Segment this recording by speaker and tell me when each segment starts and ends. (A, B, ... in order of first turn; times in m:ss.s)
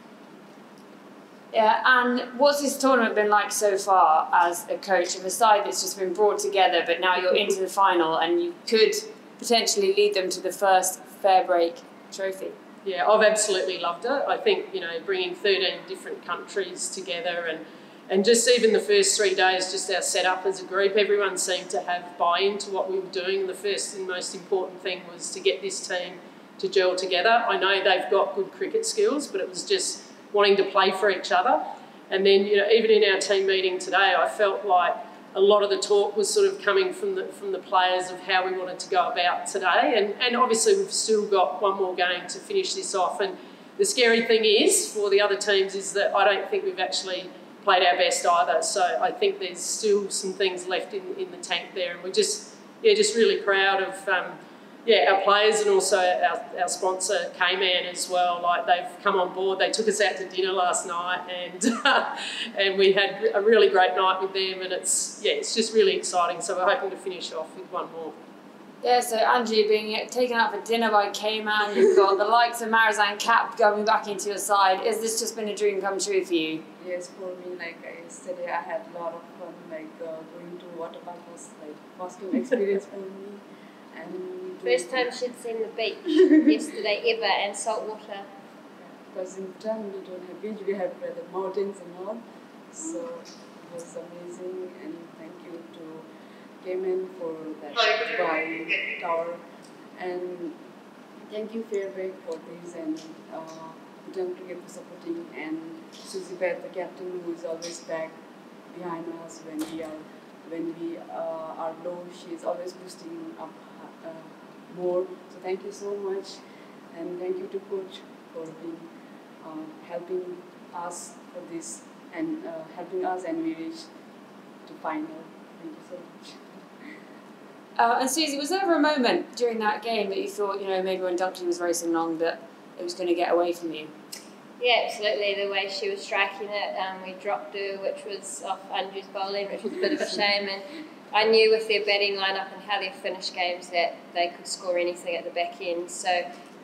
0:01.5-0:12.6 A
0:12.8-1:08.2 B
1:08.8-1:16.6 A
1:16.8-1:25.1 C
1:24.6-1:28.3 D
1:29.1-1:32.2 C
1:32.7-1:36.1 C
1:36.6-1:39.4 C
1:40.0-1:40.6 C
1:41.3-1:48.2 C
1:48.7-1:56.4 C
1:56.9-1:58.9 C
1:59.4-2:03.9 C
2:04.6-2:06.4 C
2:07.8-2:13.9 A
2:14.6-2:26.2 D